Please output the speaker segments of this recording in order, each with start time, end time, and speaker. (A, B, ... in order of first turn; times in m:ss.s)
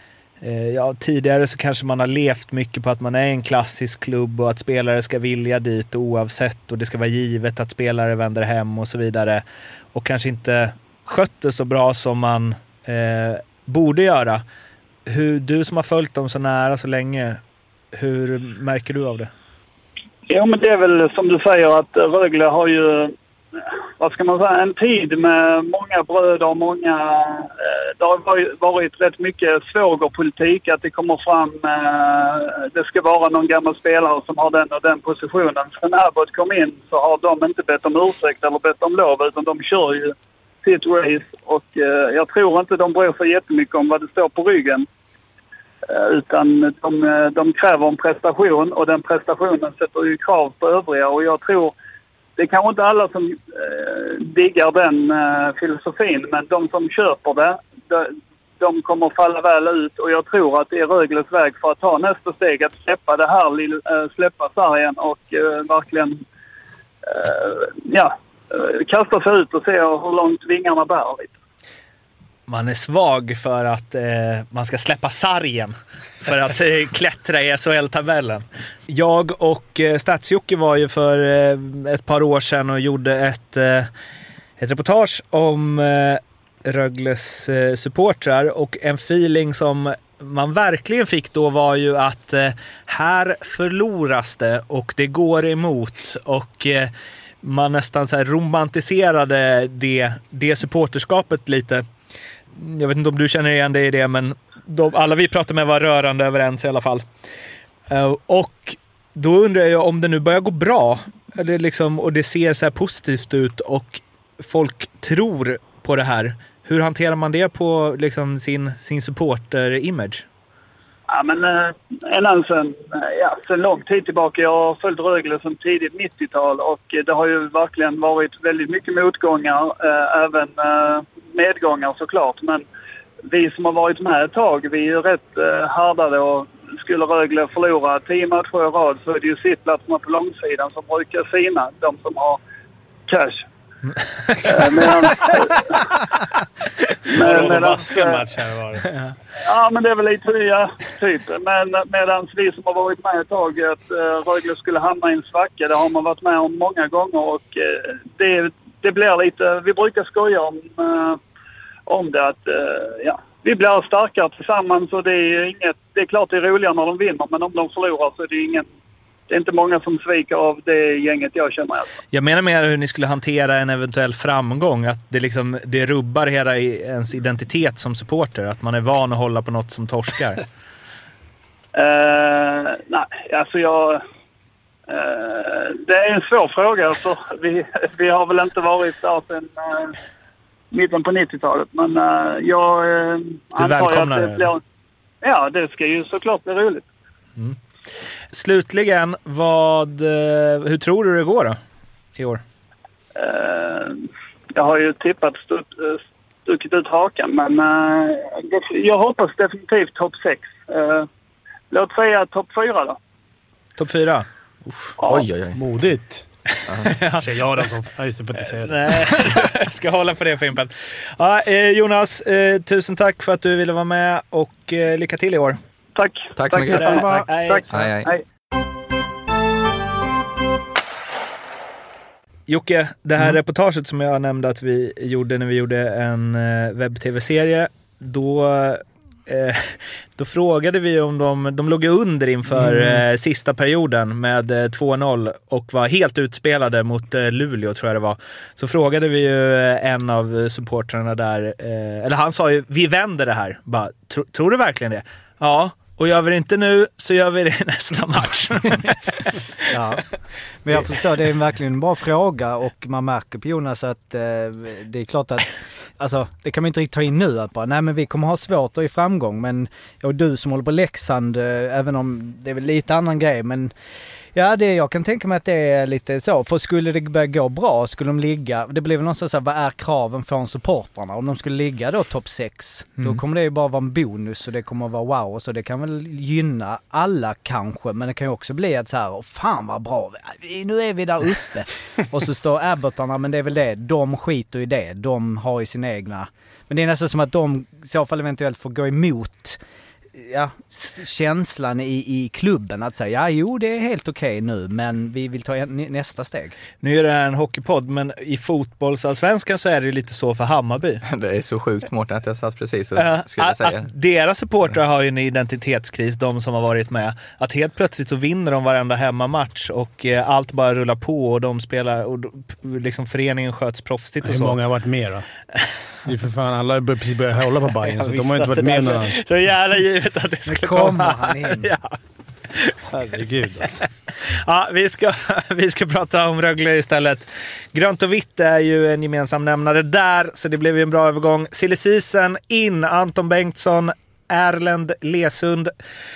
0:00.4-0:09.4 A
0:09.9-0:14.4 A
0:15.1-0:17.4 A
0:17.9-0:19.3 A
0:20.3-0:23.1 B
0:24.0-0:44.9 B
0:45.8-0:51.7 B
0:52.4-1:06.2 B
1:07.0-1:11.3 B
1:12.5-1:23.9 A
1:24.6-1:41.8 A
1:42.6-1:47.0 A
1:47.9-2:00.2 A
2:01.1-2:12.6 B
2:13.2-2:22.4 B
2:23.1-2:23.4 B
2:24.4-2:25.7 B
2:27.1-2:28.2 B
2:27.1-2:28.9 C
2:29.4-2:41.2 B
2:41.9-2:48.6 B
2:49.3-2:52.0 B
2:52.1-3:00.4 A
3:01.7-3:04.0 B
3:04.9-3:10.0 B
3:10.7-3:14.6 B
3:13.6-3:14.5 A
3:15.2-3:16.8 B
3:18.3-3:21.6 A
3:22.2-3:22.4 A
3:23.2-3:31.1 B
3:31.7-3:33.0 B
3:33.8-3:34.2 A
3:35.0-3:35.2 B
3:35.1-3:35.6 D
3:35.5-3:36.2 C
3:36.7-3:37.0 D
3:36.8-3:37.2 A
3:37.2-3:39.3 C
3:38.5-3:45.6 A
3:46.0-3:48.2 B
3:46.4-3:47.0 D
3:46.7-3:47.8 A
3:47.7-3:48.1 D
3:52.5-4:19.3 A
4:19.7-4:20.1 E
4:20.6-4:33.7 E
4:34.3-4:59.6 E
5:00.1-5:06.6 E
5:06.8-5:11.0 A
5:11.0-5:13.9 D
5:13.0-5:24.6 A
5:24.2-5:25.3 C
5:26.0-5:29.2 C
5:27.8-5:31.9 A
5:30.4-5:31.7 E
5:32.5-5:32.8 A
5:32.9-5:33.8 C
5:34.2-5:45.7 A